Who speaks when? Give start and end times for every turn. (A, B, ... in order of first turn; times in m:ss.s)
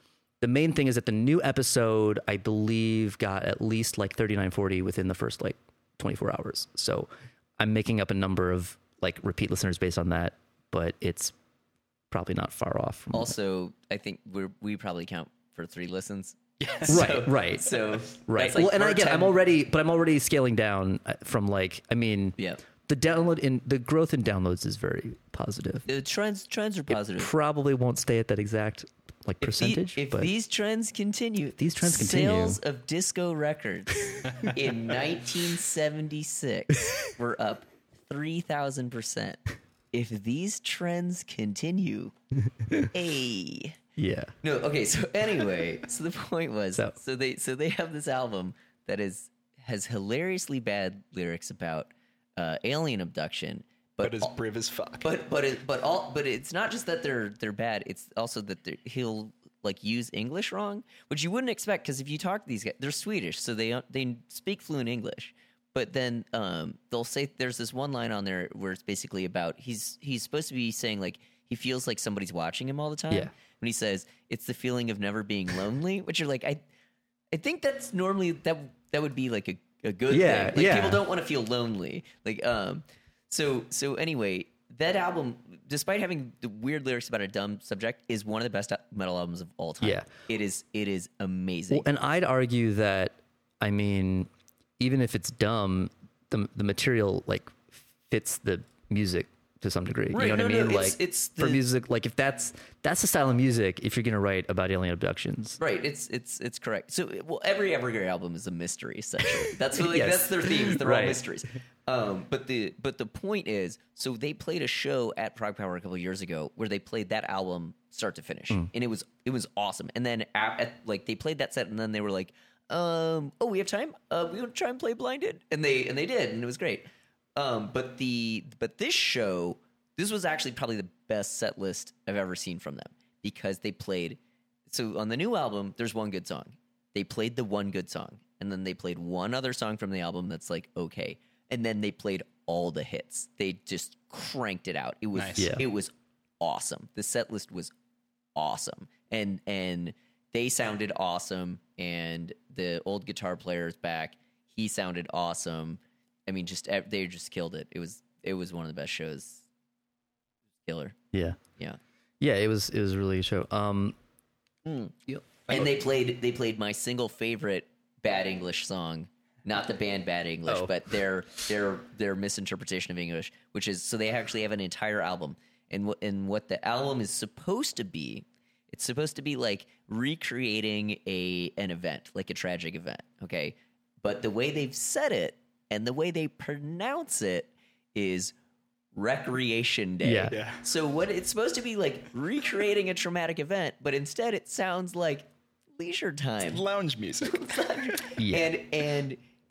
0:00.4-0:11.3 A
0:12.1-0:13.3 A
0:13.1-0:19.3 B
0:16.6-0:17.1 C
0:16.9-0:25.8 A
0:22.4-0:22.6 B
0:25.8-0:27.3 B
0:26.9-0:30.3 A
0:29.4-0:39.4 B
0:31.6-0:32.6 A
0:39.9-0:42.1 B
0:42.7-0:43.8 B
0:44.0-0:44.3 A
0:44.4-0:54.3 B
0:54.0-0:55.1 C
0:55.0-1:16.6 B
1:17.3-1:31.9 B
1:20.1-1:21.0 A
1:29.8-1:30.1 A
1:31.7-1:34.3 A
1:34.8-1:45.6 A
1:40.1-1:41.6 B
1:45.6-2:27.7 B
1:49.7-1:51.2 A
2:25.2-2:25.5 C
2:25.4-2:25.6 A
2:28.4-2:39.4 B
2:40.6-2:41.0 B
2:41.1-2:41.4 A
2:42.2-2:44.0 A
2:44.6-2:45.0 B
2:45.5-3:08.3 B
2:50.5-2:50.7 A
3:08.9-3:16.6 B
3:10.0-3:10.4 A
3:10.3-3:10.6 C
3:16.4-3:18.1 C
3:17.2-3:19.2 B
3:18.2-3:18.5 A